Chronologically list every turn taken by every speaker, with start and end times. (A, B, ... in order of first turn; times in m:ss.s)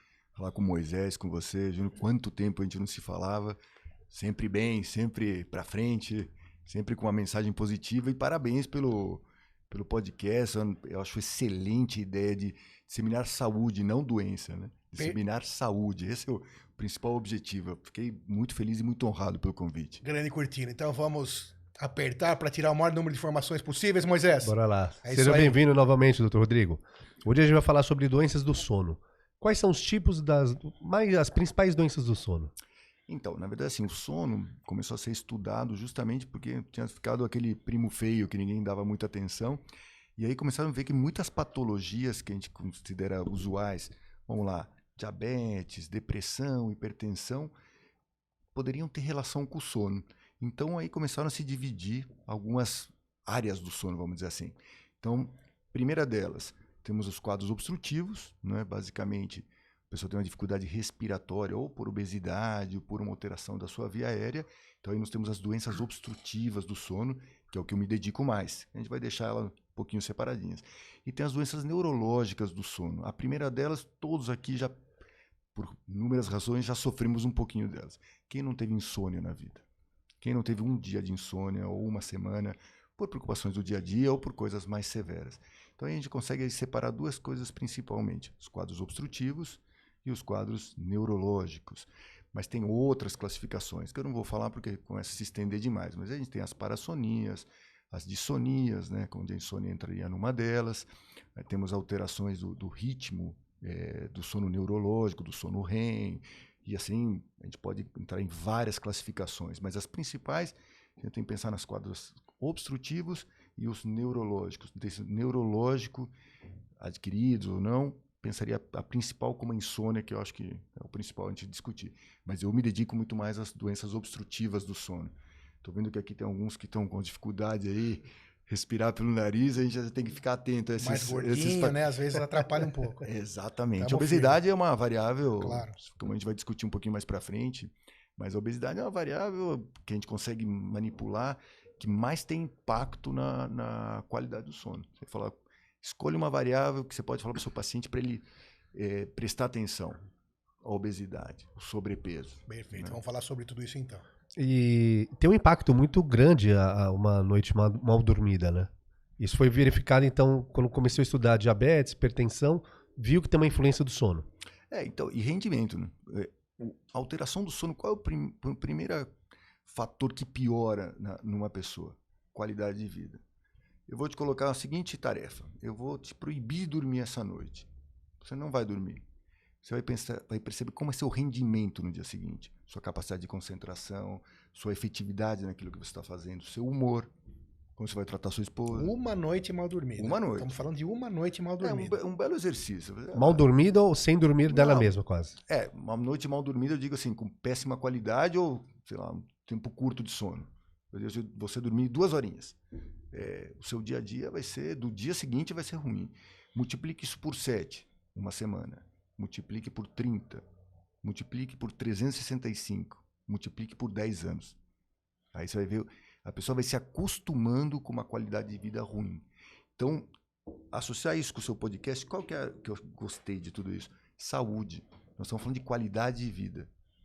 0:00.3-0:03.6 A
0:04.1-0:20.0 A
0:20.0-0:25.6 B
0:24.4-0:32.5 C
0:33.1-0:39.6 A
0:40.2-0:47.5 A
0:48.5-1:14.7 A
1:15.5-1:19.6 A
1:20.2-1:56.1 A
1:56.8-2:11.8 A
2:10.8-2:13.1 B
2:13.0-2:30.0 A
2:13.8-2:14.4 B
2:15.4-2:15.8 B
2:30.6-2:33.0 A
2:32.5-2:34.0 B
2:34.4-2:44.3 C
2:44.7-2:53.2 A
2:53.9-2:57.7 A
2:58.2-2:59.0 A
2:59.6-3:07.1 A
3:07.8-3:08.9 A
3:08.7-3:12.0 B
3:10.0-3:10.5 A
3:11.6-3:13.5 A
3:13.2-3:15.4 C
3:14.5-3:22.6 A
3:23.1-3:30.4 A
3:31.0-3:34.6 A
3:35.3-3:40.1 A
3:40.7-3:46.7 A